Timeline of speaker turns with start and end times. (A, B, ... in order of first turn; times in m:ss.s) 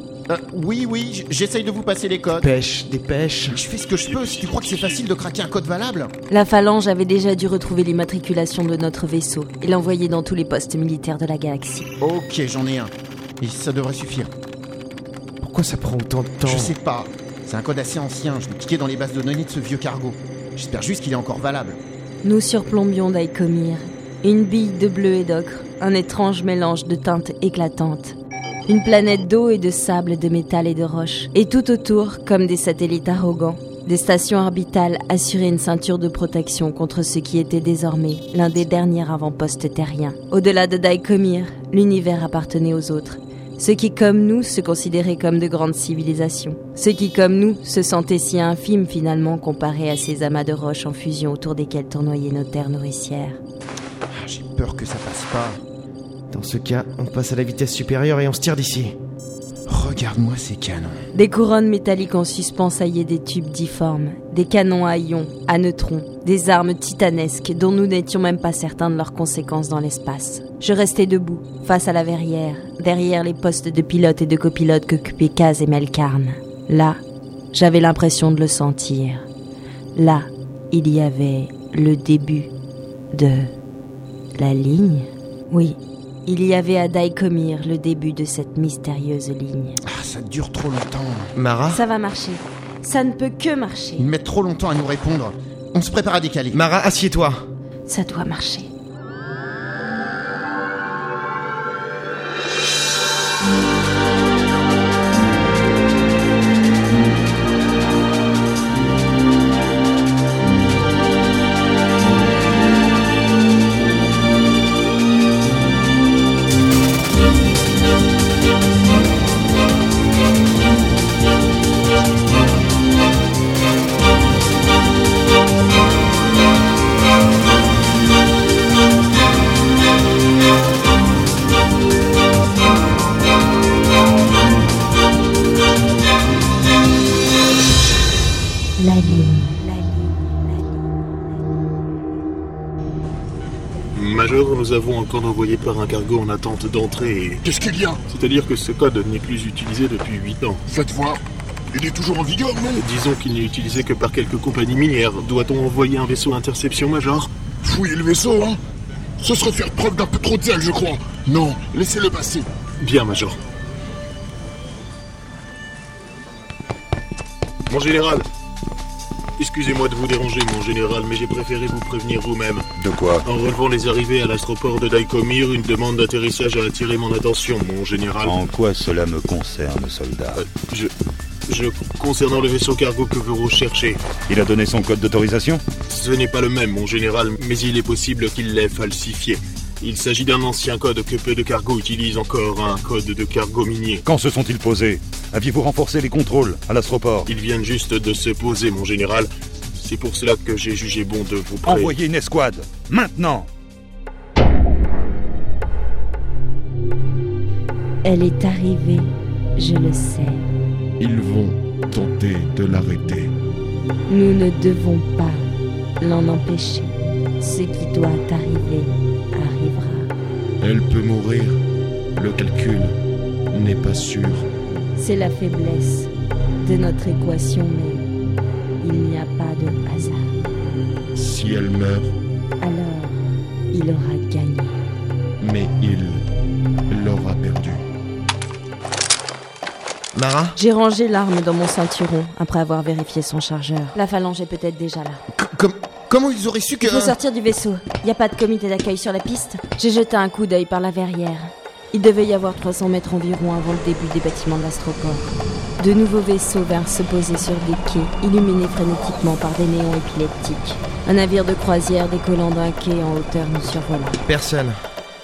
0:00.3-0:02.5 A
0:02.4-0:03.6 B
0:03.5-0:06.1 A
0:03.8-0:05.0 C
0:06.3-0:11.9 D
0:12.0-0:14.3 A
0:15.4-0:16.8 B
0:16.4-0:21.8 A
0:22.2-0:53.4 D
0:54.1-0:55.6 A
0:56.3-0:58.9 B
0:59.7-1:01.0 A
1:01.1-1:17.0 D
1:17.5-1:19.3 D
1:19.9-1:22.5 D
1:23.1-1:23.5 D
1:24.4-1:29.8 D
1:29.9-1:31.3 A
1:31.3-1:31.8 B
1:31.7-1:34.1 D
1:34.0-1:36.6 A
1:36.5-1:37.4 B
1:37.8-1:38.7 D
2:18.8-2:20.0 D
2:23.9-2:27.4 C
2:27.4-2:28.0 E
2:28.0-2:30.6 C
2:30.6-2:32.8 E
2:32.8-2:37.3 C
2:37.6-2:38.6 E
2:39.2-2:42.5 E
2:42.8-2:43.4 C
2:47.7-2:48.2 C
2:49.4-2:52.7 C
2:52.8-2:53.2 F
2:53.2-2:58.4 C
2:58.2-3:00.4 F
3:00.4-3:00.9 C
3:01.5-3:04.0 C
3:04.3-3:05.6 F
3:05.9-3:14.0 C
3:14.0-3:17.3 F
3:17.2-3:22.0 C
3:21.6-3:23.5 F
3:28.0-3:30.5 D
3:31.0-3:33.3 G
3:34.1-3:35.5 D
3:36.0-3:40.1 D
3:40.6-3:41.6 G
3:42.2-3:43.0 G
3:43.5-3:44.5 G
3:45.0-3:48.0 D
3:48.8-3:50.4 D
3:51.1-3:52.1 G
3:52.6-3:54.8 D
3:55.4-3:56.2 G
3:56.9-3:57.8 G
4:00.1-4:00.6 B
4:00.5-4:05.2 D
4:05.4-4:07.2 A
4:06.8-4:24.2 D
4:24.2-4:24.8 B